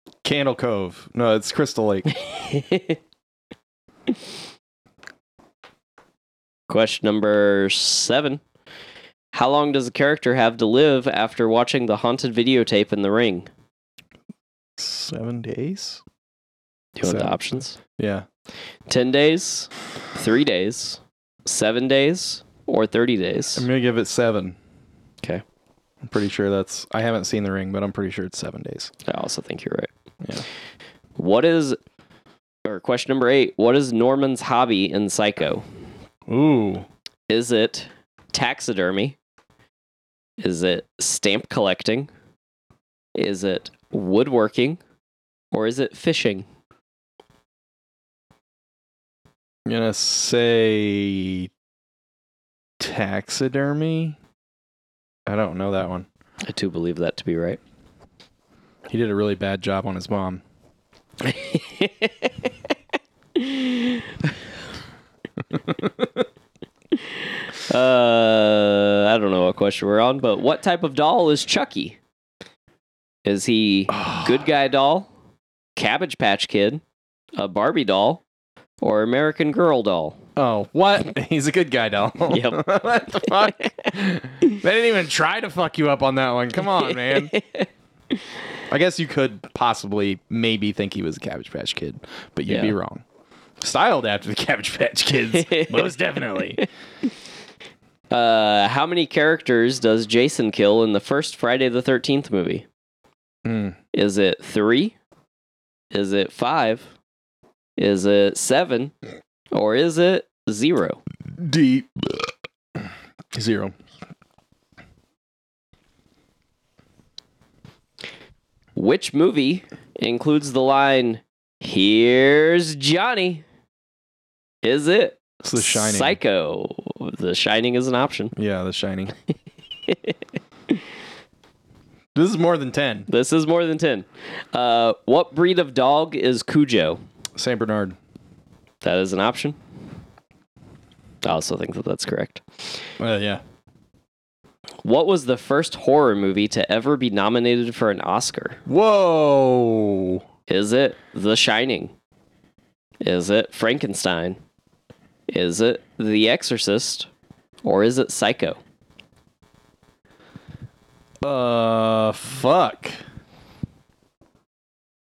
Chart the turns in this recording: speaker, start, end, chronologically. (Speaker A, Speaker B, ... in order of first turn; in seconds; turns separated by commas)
Speaker A: 0.2-2.1, Speaker B: 2.1-3.0, Speaker B: 6.7-8.4, Speaker B: 9.3-13.5, Speaker A: 14.8-16.0, Speaker B: 16.9-17.8, Speaker A: 17.0-17.3, Speaker A: 17.9-18.2, Speaker B: 18.9-23.7, Speaker A: 23.6-24.6, Speaker A: 26.0-28.9, Speaker B: 29.0-29.9, Speaker B: 31.1-31.8, Speaker B: 32.6-35.6, Speaker A: 36.3-36.9, Speaker B: 37.3-39.2, Speaker B: 40.4-42.1, Speaker B: 43.1-44.8, Speaker B: 45.5-46.4, Speaker A: 49.6-51.5, Speaker A: 52.8-54.2, Speaker A: 55.2-56.1, Speaker B: 56.4-57.6, Speaker A: 58.9-60.4, Speaker B: 61.2-62.5, Speaker B: 63.3-64.4, Speaker A: 65.7-66.0, Speaker B: 66.9-72.0, Speaker B: 73.2-75.1, Speaker A: 73.9-74.5, Speaker B: 75.8-76.8, Speaker B: 77.4-78.2, Speaker B: 78.8-80.2, Speaker A: 80.3-87.3, Speaker B: 82.3-83.9, Speaker B: 86.7-88.2, Speaker A: 88.7-93.0, Speaker B: 92.5-92.7, Speaker A: 93.6-96.6, Speaker B: 95.3-95.9, Speaker B: 98.1-102.7, Speaker A: 103.4-103.8, Speaker B: 103.9-104.9, Speaker B: 105.9-106.9, Speaker B: 107.8-108.9, Speaker B: 109.5-111.0, Speaker A: 111.3-112.3, Speaker A: 113.3-113.7, Speaker B: 118.8-123.4, Speaker B: 124.6-128.3, Speaker A: 125.4-126.2, Speaker A: 128.3-129.1, Speaker B: 129.9-130.2, Speaker A: 132.1-133.1, Speaker B: 133.1-137.0, Speaker A: 137.4-137.9, Speaker B: 138.8-139.6, Speaker B: 141.2-142.7, Speaker A: 143.0-143.4, Speaker B: 144.8-148.6, Speaker A: 148.7-150.2, Speaker B: 150.5-151.9, Speaker B: 153.0-154.4, Speaker B: 155.3-157.1, Speaker B: 157.6-158.6, Speaker A: 161.2-163.0